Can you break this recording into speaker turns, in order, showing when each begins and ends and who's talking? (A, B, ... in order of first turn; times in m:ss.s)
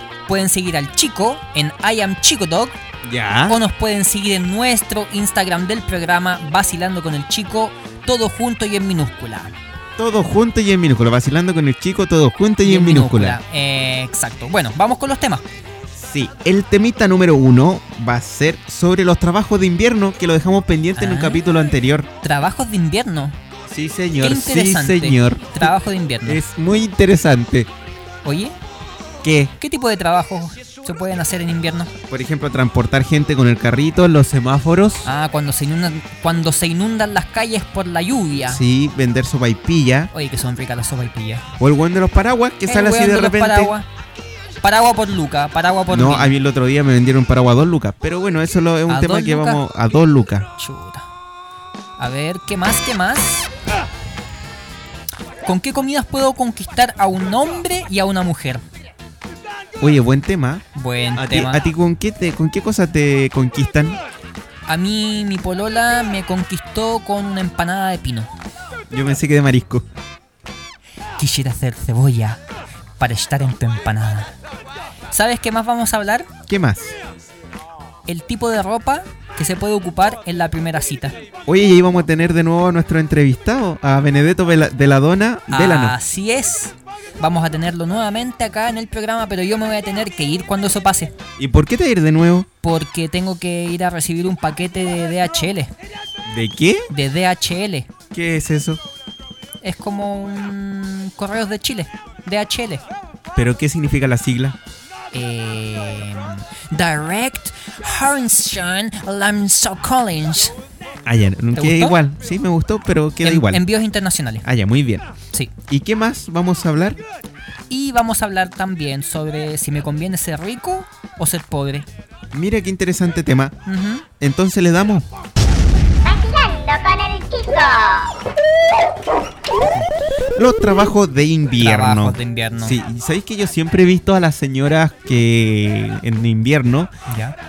0:00.3-0:02.8 A
0:03.0-0:03.6 B
0:03.5-0:09.6 A
0:10.0-0:13.4 B
0:12.6-0:15.4 A
0:15.9-0:22.1 B
0:21.0-0:21.4 A
0:22.2-0:23.4 A
0:23.7-0:25.7 B
0:24.2-0:26.4 A
0:26.2-0:27.7 B
0:28.2-0:28.6 A
0:29.2-0:29.5 B
0:29.6-0:31.9 A
0:32.1-0:35.1 B
0:35.0-0:38.6 A
0:38.5-0:40.1 B
0:40.1-0:41.5 A
0:41.6-0:43.7 B
0:42.7-0:43.9 A
0:44.6-0:46.3 A
0:45.9-0:50.5 B
0:48.9-0:49.6 A
0:50.6-0:51.0 A
0:52.0-0:53.5 A
0:55.4-0:58.6 A
0:59.8-1:04.0 B
1:00.7-1:01.6 A
1:04.7-1:08.3 A
1:08.9-1:09.8 B
1:11.2-1:12.4 A
1:13.0-1:14.3 A
1:15.1-1:16.3 A
1:16.5-1:17.0 B
1:18.1-1:21.2 A
1:21.5-1:26.0 B
1:25.5-1:31.1 A
1:31.4-1:32.5 B
1:32.6-1:35.7 A
1:36.3-1:36.9 B
1:36.9-1:37.9 A
1:38.1-1:38.8 B
1:39.6-1:42.8 A
1:43.4-1:44.6 B
1:45.1-1:50.6 A
1:51.0-1:53.6 B
1:51.6-1:52.0 A
1:53.2-1:54.5 A
1:54.4-1:55.1 B
1:55.7-1:57.0 B
1:57.7-2:01.9 A
2:02.3-2:03.6 B
2:03.7-2:04.1 A
2:04.2-2:05.1 B
2:06.0-2:08.1 C
2:09.8-2:16.9 B
2:11.6-2:12.8 A
2:17.1-2:17.4 A